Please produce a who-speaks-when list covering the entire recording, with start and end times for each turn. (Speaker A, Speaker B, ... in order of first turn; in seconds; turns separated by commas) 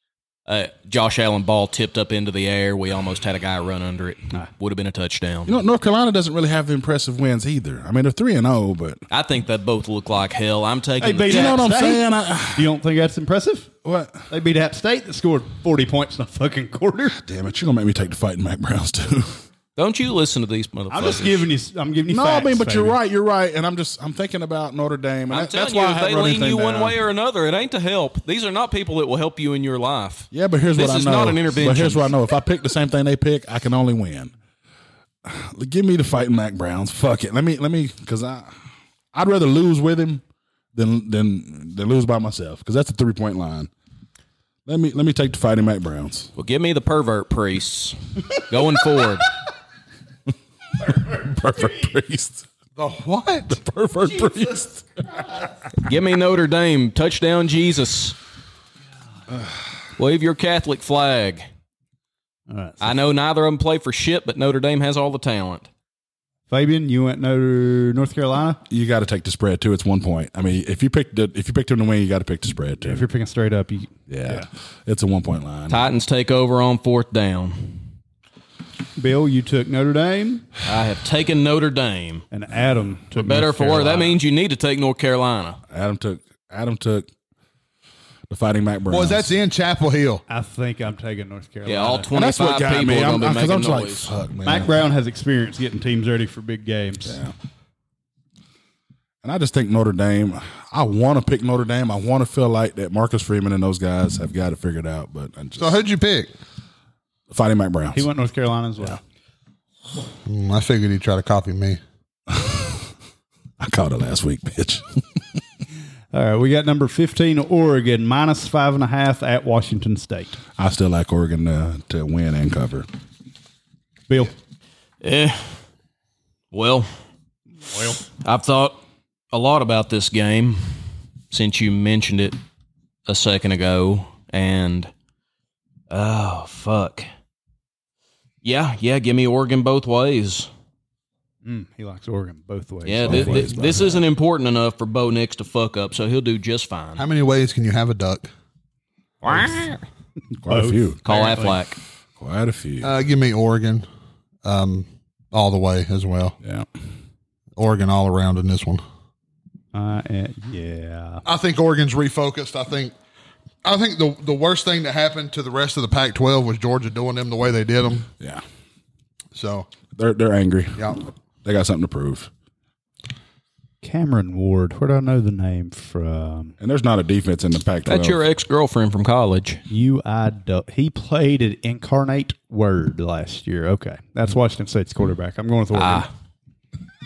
Speaker A: 0.5-5.6, Speaker B: 5.5-9.0, Speaker A: 9.1-11.6, Speaker C: 11.0-13.7, Speaker B: 11.3-12.7, Speaker B: 13.8-14.3, Speaker C: 14.3-17.2, Speaker B: 17.2-19.4, Speaker A: 19.8-21.5, Speaker C: 20.9-23.0, Speaker B: 22.1-27.0, Speaker A: 25.3-32.1, Speaker B: 30.3-34.3, Speaker B: 35.2-38.5, Speaker B: 39.1-40.2, Speaker B: 40.7-43.7, Speaker B: 44.6-46.3, Speaker A: 46.4-49.3, Speaker B: 50.8-52.5, Speaker D: 52.8-53.6, Speaker B: 53.5-55.4, Speaker A: 55.8-58.2, Speaker A: 60.0-61.5, Speaker C: 62.5-62.9, Speaker A: 62.8-65.7, Speaker C: 66.5-68.6, Speaker B: 68.7-73.1, Speaker C: 72.8-74.5, Speaker B: 74.1-75.9, Speaker A: 75.7-77.8, Speaker C: 79.0-80.5, Speaker A: 80.6-82.2, Speaker C: 82.3-84.2, Speaker A: 83.2-85.6, Speaker B: 85.7-87.1, Speaker B: 88.3-89.3, Speaker D: 88.9-90.2, Speaker C: 90.3-92.1, Speaker A: 91.7-94.1, Speaker B: 92.1-94.7, Speaker C: 94.4-97.2, Speaker B: 97.0-97.3, Speaker B: 99.2-105.8, Speaker D: 105.6-106.3, Speaker B: 107.3-108.1, Speaker C: 107.9-109.0, Speaker D: 110.2-111.8, Speaker B: 112.3-112.9, Speaker B: 113.6-115.2, Speaker C: 116.1-120.4, Speaker B: 120.6-122.9, Speaker A: 125.0-125.6, Speaker A: 126.5-126.9, Speaker C: 127.6-128.0, Speaker A: 128.1-128.8, Speaker A: 129.3-130.7, Speaker A: 131.3-132.4, Speaker A: 133.1-134.9, Speaker A: 135.9-137.1, Speaker A: 138.4-140.5, Speaker C: 141.4-143.5, Speaker A: 142.8-147.0, Speaker B: 143.0-144.0, Speaker D: 147.0-148.3, Speaker A: 149.2-149.8, Speaker B: 150.4-151.0, Speaker C: 150.5-151.6, Speaker A: 151.0-151.8, Speaker B: 152.2-152.9, Speaker D: 152.8-153.8, Speaker D: 154.4-156.4, Speaker B: 156.4-156.7, Speaker D: 157.6-158.8, Speaker C: 159.7-161.2, Speaker D: 161.2-162.9, Speaker D: 163.6-168.1, Speaker D: 169.3-169.7, Speaker B: 169.9-172.3, Speaker D: 170.8-171.0, Speaker C: 173.8-176.5, Speaker B: 176.6-178.2, Speaker A: 177.8-179.6, Speaker C: 179.7-186.1, Speaker A: 185.7-186.1